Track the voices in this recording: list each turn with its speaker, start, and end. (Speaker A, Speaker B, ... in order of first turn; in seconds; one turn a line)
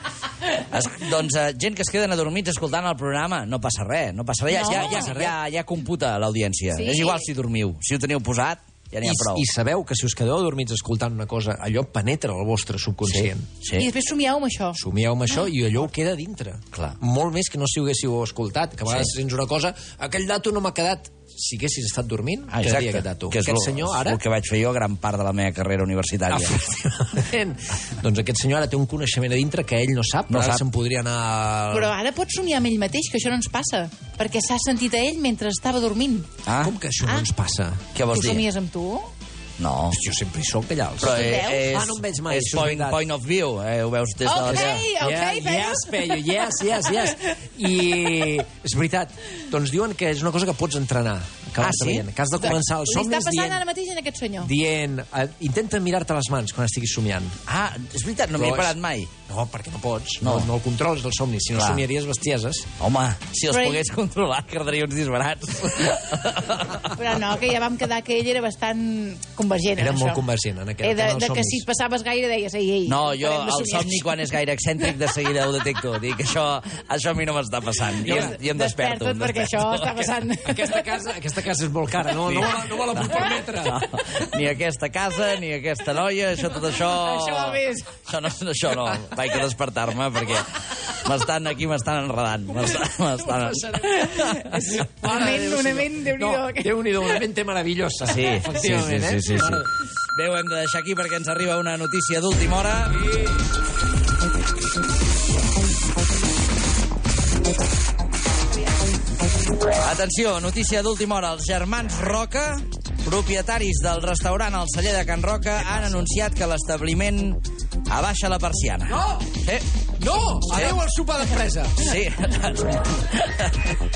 Speaker A: 0.7-9.4
Speaker B: 4.5-5.0
Speaker C: 4.5-5.4
Speaker B: 6.7-7.2
Speaker C: 9.0-13.5
Speaker A: 13.1-13.9
Speaker B: 13.8-14.8
Speaker C: 14.8-24.2
Speaker A: 22.5-26.6
Speaker C: 26.3-32.0
Speaker A: 30.3-30.6
Speaker B: 31.7-36.3
Speaker A: 36.5-36.7
Speaker C: 36.6-37.9
Speaker A: 38.0-38.5
Speaker B: 38.1-39.1
Speaker A: 39.6-40.0
Speaker C: 39.9-43.0
Speaker A: 41.0-44.9
Speaker B: 41.0-41.6
Speaker B: 44.2-45.9
Speaker C: 44.5-53.6
Speaker A: 51.6-52.0
Speaker B: 52.4-54.5
Speaker C: 54.4-57.4
Speaker A: 57.5-59.1
Speaker C: 58.4-62.7
Speaker A: 60.2-60.5
Speaker A: 61.5-61.8
Speaker A: 62.8-66.9
Speaker B: 63.5-63.8
Speaker B: 67.0-70.2
Speaker C: 69.8-71.7
Speaker B: 70.8-74.1
Speaker A: 72.9-79.8
Speaker C: 78.0-78.4
Speaker B: 78.4-80.7
Speaker C: 79.8-83.9
Speaker A: 82.3-94.7
Speaker B: 86.8-87.9
Speaker C: 93.2-99.7
Speaker B: 94.1-97.0
Speaker A: 98.0-103.0
Speaker A: 109.7-119.7
Speaker C: 118.9-119.3
Speaker C: 120.0-121.9
Speaker A: 120.5-120.8
Speaker A: 121.8-123.7